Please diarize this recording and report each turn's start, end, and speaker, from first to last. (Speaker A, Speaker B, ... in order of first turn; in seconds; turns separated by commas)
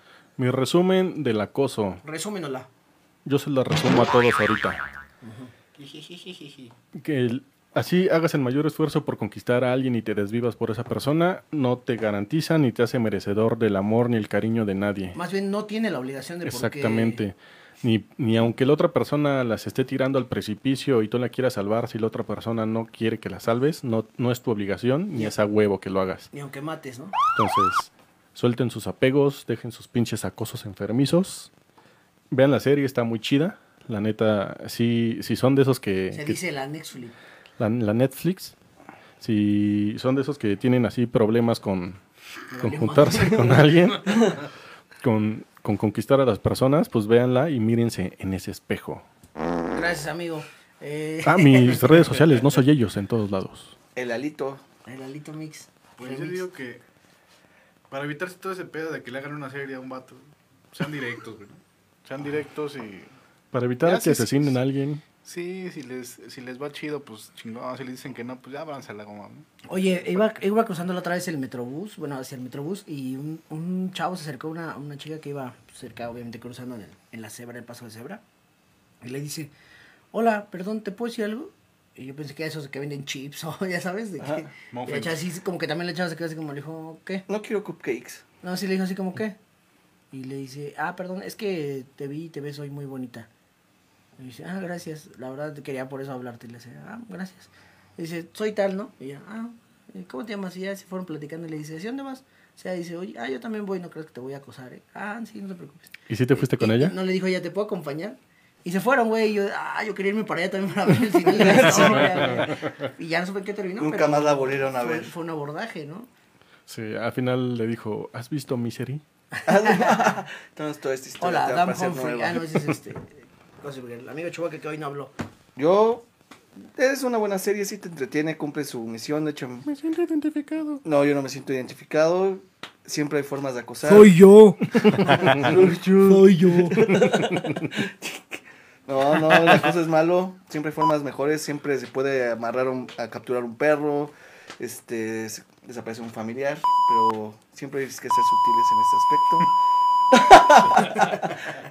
Speaker A: 0.4-2.0, Speaker B: 2.0-2.7, Speaker A: 3.2-4.8, Speaker B: 5.2-5.5, Speaker C: 5.8-6.5, Speaker A: 6.9-15.2, Speaker B: 15.1-17.2, Speaker A: 16.4-26.3, Speaker B: 26.3-27.1, Speaker A: 27.4-31.5, Speaker A: 32.3-36.4, Speaker B: 36.1-37.2, Speaker A: 37.6-38.6, Speaker A: 39.2-42.0, Speaker B: 42.5-43.7, Speaker A: 42.6-44.5, Speaker A: 45.0-49.0, Speaker B: 49.7-52.2, Speaker A: 51.2-53.8, Speaker D: 54.0-54.6, Speaker B: 54.9-56.5, Speaker C: 56.0-56.8, Speaker C: 57.9-63.1, Speaker A: 63.5-65.0, Speaker C: 63.8-64.5, Speaker C: 65.2-70.3, Speaker B: 69.7-78.2, Speaker B: 79.0-79.5, Speaker B: 80.1-87.3, Speaker D: 84.2-84.5, Speaker C: 84.7-85.2, Speaker D: 87.3-88.2, Speaker B: 88.4-89.4, Speaker B: 90.1-93.3, Speaker B: 94.2-116.1, Speaker A: 106.1-107.0, Speaker D: 111.3-112.4, Speaker A: 111.7-112.7, Speaker D: 113.8-115.1, Speaker A: 116.7-119.0, Speaker B: 119.3-120.2, Speaker D: 119.5-122.6, Speaker B: 121.2-125.1, Speaker D: 125.6-126.1, Speaker D: 126.7-129.7, Speaker A: 129.7-130.8, Speaker D: 130.8-134.2, Speaker B: 133.8-137.0, Speaker D: 135.1-149.5, Speaker A: 135.1-135.5, Speaker A: 136.8-137.7, Speaker D: 150.1-151.5